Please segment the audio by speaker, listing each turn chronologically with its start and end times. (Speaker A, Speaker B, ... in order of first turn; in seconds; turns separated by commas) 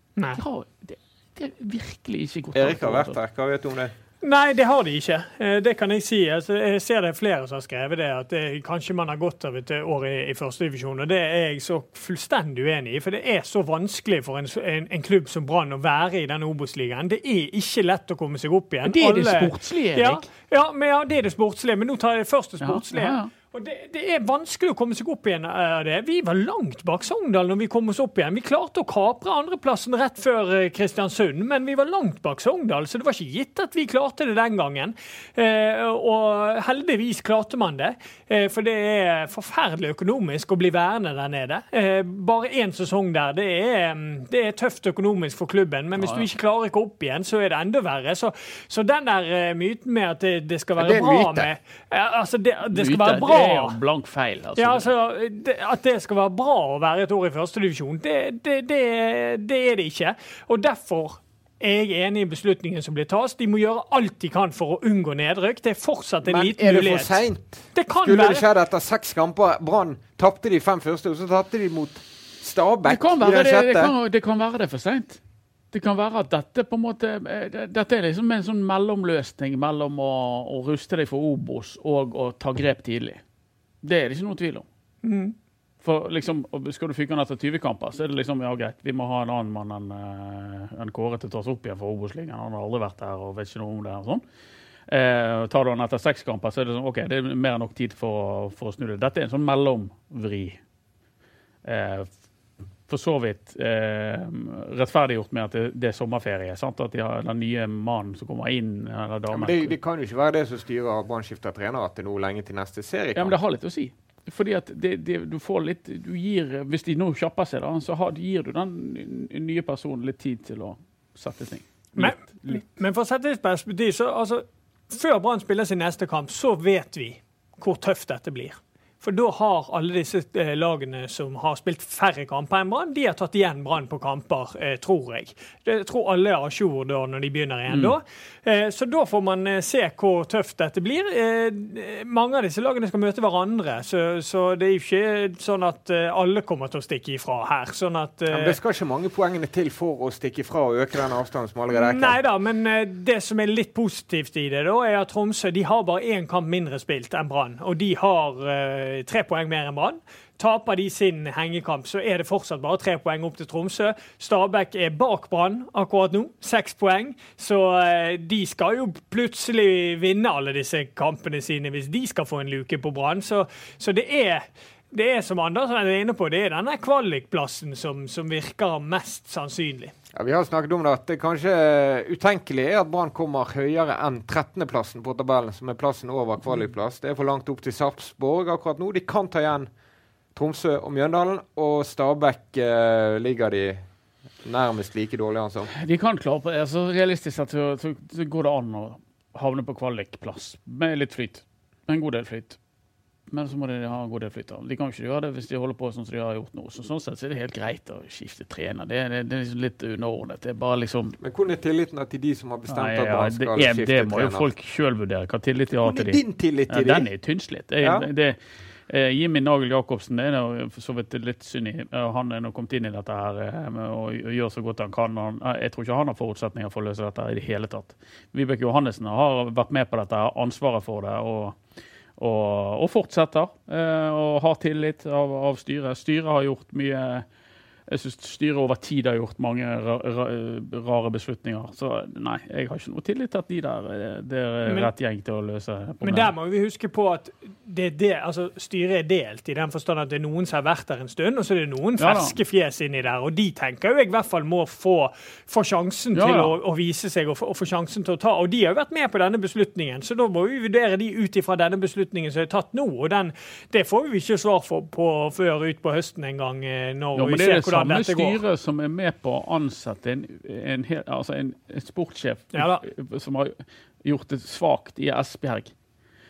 Speaker A: 0.2-0.4, Speaker B: 0.4-3.2, Speaker C: 2.5-3.9, Speaker A: 4.2-53.8, Speaker B: 18.8-20.2, Speaker B: 22.6-23.3, Speaker B: 46.0-46.3, Speaker C: 50.8-51.5, Speaker B: 52.7-54.9, Speaker A: 54.6-67.2, Speaker C: 66.2-73.9, Speaker A: 67.8-68.5, Speaker B: 72.9-75.2, Speaker B: 75.7-83.2, Speaker B: 83.8-84.7, Speaker A: 85.0-85.3, Speaker B: 85.8-94.2, Speaker B: 94.9-100.6, Speaker B: 101.6-102.1, Speaker B: 102.9-109.8, Speaker C: 109.3-113.4, Speaker B: 113.2-122.6, Speaker A: 122.0-148.6, Speaker B: 137.7-138.0, Speaker C: 148.3-152.2, Speaker A: 151.7-179.9, Speaker C: 180.1-189.7, Speaker C: 190.3-193.8, Speaker C: 194.4-195.7, Speaker B: 195.7-202.6, Speaker B: 203.3-211.2, Speaker C: 211.2-214.5, Speaker B: 212.7-231.6, Speaker C: 215.8-217.1, Speaker C: 217.8-218.1, Speaker B: 232.2-237.3, Speaker B: 237.9-246.3, Speaker A: 244.7-244.9, Speaker A: 246.0-268.4, Speaker B: 252.0-252.4, Speaker B: 256.1-256.5, Speaker B: 267.1-275.7, Speaker A: 272.5-272.8